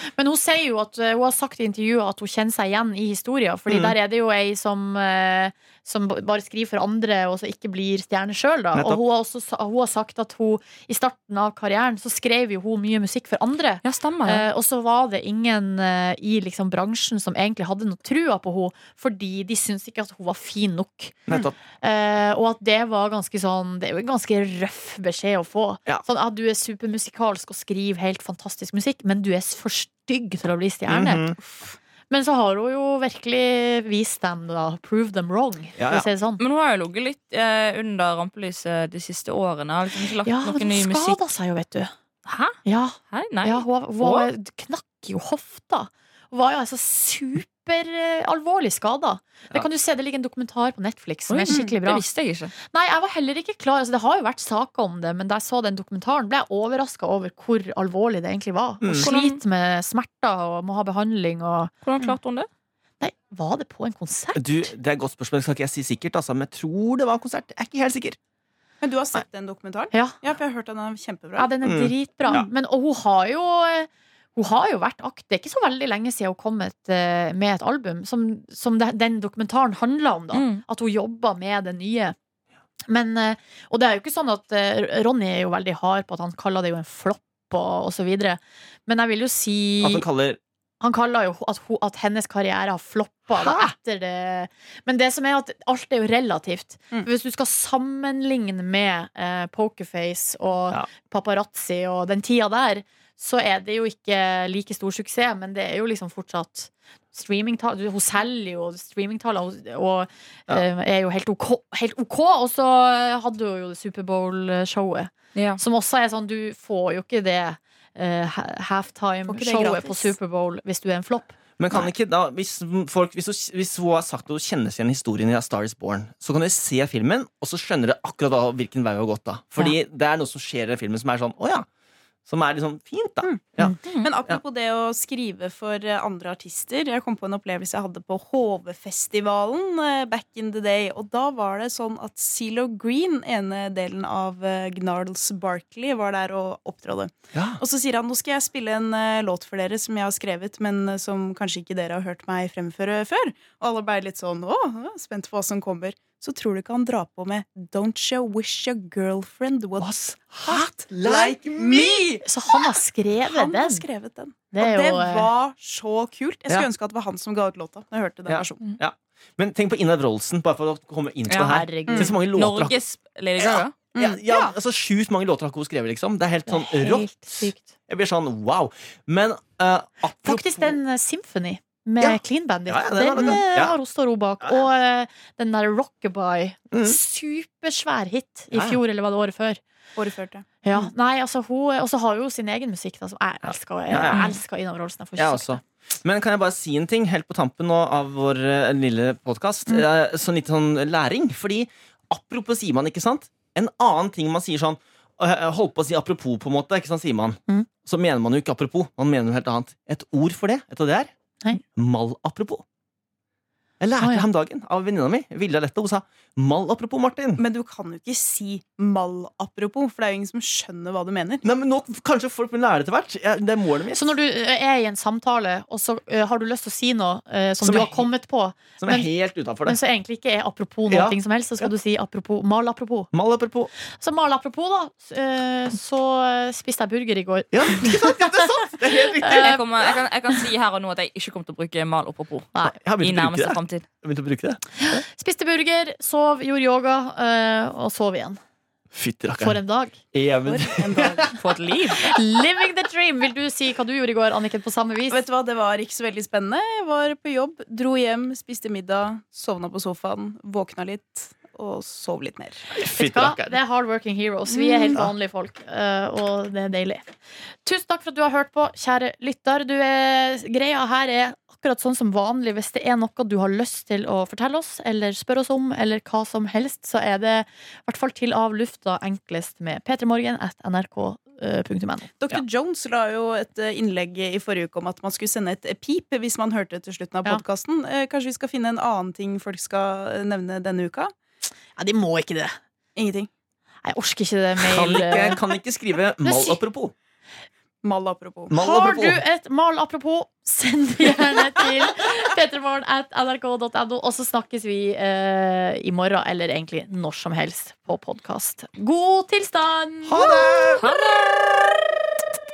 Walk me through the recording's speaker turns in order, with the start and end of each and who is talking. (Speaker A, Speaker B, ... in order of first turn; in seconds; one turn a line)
Speaker A: 0.2-31.2
Speaker B: 3.7-4.0
Speaker B: 8.7-9.0
Speaker C: 13.8-14.4
Speaker B: 21.3-21.6
Speaker B: 30.9-31.4
Speaker A: 32.1-36.4
Speaker B: 35.8-36.1
Speaker C: 36.4-41.3
Speaker A: 40.2-41.9
Speaker C: 42.2-42.6
Speaker A: 42.6-52.0
Speaker C: 43.1-44.3
Speaker C: 51.3-52.5
Speaker A: 52.6-61.7
Speaker B: 58.8-59.1
Speaker C: 59.0-59.4
Speaker C: 61.8-62.5
Speaker A: 63.0-64.7
Speaker B: 64.3-68.2
Speaker D: 68.8-71.5
Speaker A: 71.4-82.2
Speaker B: 71.6-72.5
Speaker C: 80.3-80.6
Speaker A: 82.9-90.1
Speaker B: 89.8-90.4
Speaker A: 90.8-121.9
Speaker B: 93.4-93.7
Speaker C: 115.3-115.6
Speaker D: 119.3-120.1
Speaker B: 121.6-131.7
Speaker B: 132.3-134.4
Speaker D: 134.0-159.9
Speaker B: 147.3-147.6
Speaker B: 159.8-162.0
Speaker D: 160.4-162.7
Speaker A: 162.2-163.9
Speaker D: 163.2-168.8
Speaker A: 164.5-165.3
Speaker B: 168.3-172.8
Speaker C: 171.3-171.5
Speaker A: 171.4-172.1
Speaker D: 171.9-172.1
Speaker C: 172.3-173.8
Speaker B: 173.4-180.8
Speaker D: 173.9-174.5
Speaker A: 176.5-177.7
Speaker A: 180.2-189.6
Speaker B: 182.0-183.8
Speaker B: 186.7-187.0
Speaker B: 188.5-188.8
Speaker D: 190.0-190.8
Speaker A: 190.6-195.6
Speaker B: 193.5-194.3
Speaker B: 195.2-211.1
Speaker B: 211.8-212.6
Speaker B: 213.8-217.4
Speaker A: 214.0-214.3
Speaker D: 217.4-221.4
Speaker B: 221.4-224.2
Speaker A: 223.9-229.1
Speaker B: 227.6-228.1
Speaker B: 228.8-229.8
Speaker A: 229.6-233.1
Speaker B: 230.9-231.7
Speaker B: 233.1-233.7
Speaker A: 233.9-239.6
Speaker B: 237.5-239.6
Speaker C: 239.2-243.9
Speaker B: 242.7-245.0
Speaker A: 244.8-248.4
Speaker B: 248.9-249.6
Speaker A: 249.4-250.0
Speaker B: 250.1-251.3
Speaker D: 250.4-251.3
Speaker C: 251.3-252.1
Speaker A: 251.9-255.2
Speaker D: 255.1-262.7
Speaker B: 262.7-263.6
Speaker A: 262.9-267.1
Speaker D: 264.5-265.0
Speaker A: 267.6-282.1
Speaker D: 282.2-291.1
Speaker A: 291.8-292.5
Speaker D: 293.0-293.3
Speaker A: 293.8-295.4
Speaker B: 294.6-296.9
Speaker A: 296.2-296.6
Speaker D: 297.8-298.5
Speaker B: 298.5-299.2
Speaker A: 298.6-310.4
Speaker B: 310.1-310.9
Speaker C: 310.8-311.8